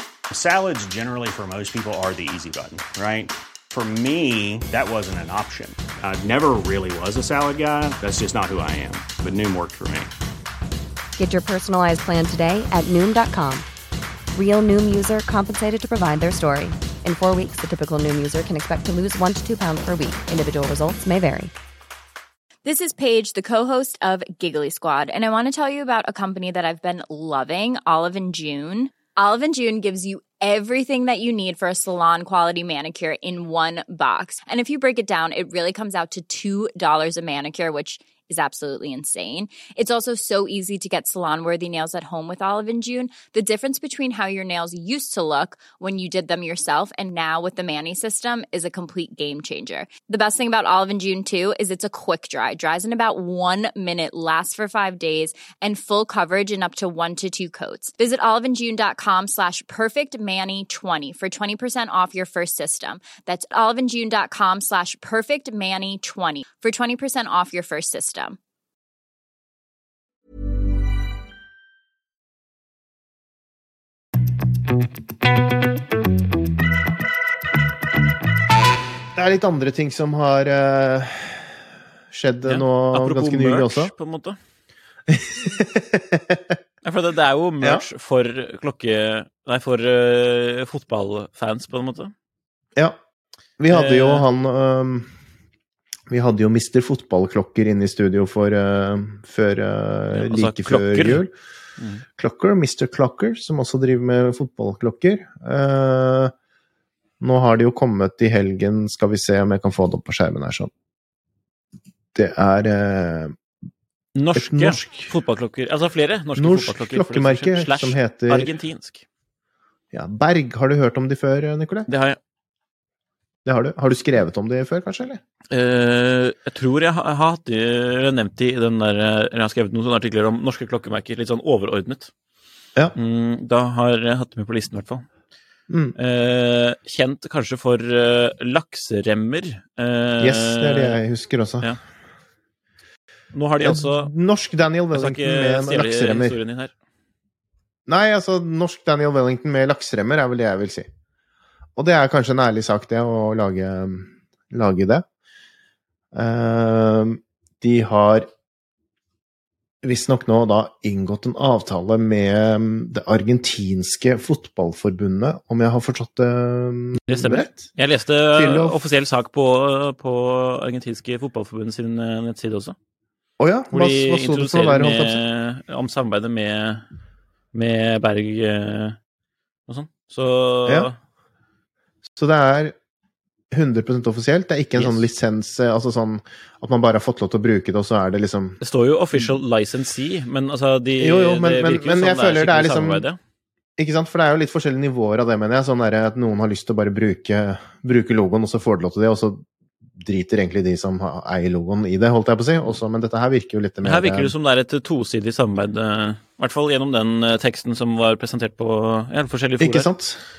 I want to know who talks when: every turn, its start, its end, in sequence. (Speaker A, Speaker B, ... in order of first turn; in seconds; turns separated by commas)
Speaker A: 0.3-10.1, Speaker B: 11.2-13.7, Speaker B: 14.3-21.5, Speaker C: 22.6-68.4, Speaker D: 79.2-81.5, Speaker D: 82.1-83.9, Speaker E: 82.5-84.4, Speaker D: 85.1-86.6, Speaker E: 86.8-92.1, Speaker D: 93.6-95.1, Speaker E: 93.7-94.3, Speaker D: 96.1-101.3, Speaker E: 100.1-101.2, Speaker D: 102.2-106.3, Speaker D: 107.2-110.7, Speaker D: 112.1-113.4, Speaker E: 114.1-119.0, Speaker D: 114.3-115.1, Speaker D: 116.4-118.5, Speaker D: 119.9-121.9, Speaker E: 121.9-122.2, Speaker D: 123.4-125.2, Speaker E: 125.5-132.1, Speaker E: 132.9-135.1, Speaker D: 135.7-136.0, Speaker E: 136.0-141.0, Speaker D: 140.2-141.7, Speaker E: 143.3-144.1, Speaker D: 143.6-146.4, Speaker E: 144.9-146.7, Speaker D: 147.9-150.9, Speaker D: 151.8-155.1, Speaker D: 156.1-158.3, Speaker D: 159.8-167.7, Speaker E: 167.1-172.8, Speaker D: 168.3-168.8, Speaker D: 173.4-175.2, Speaker E: 173.7-176.8, Speaker E: 177.5-179.0, Speaker E: 179.7-180.9, Speaker D: 182.2-182.8, Speaker D: 183.5-188.6, Speaker E: 184.8-185.0, Speaker E: 188.6-193.2, Speaker D: 191.0-193.1, Speaker D: 193.8-204.3, Speaker E: 203.8-209.9, Speaker D: 209.6-210.2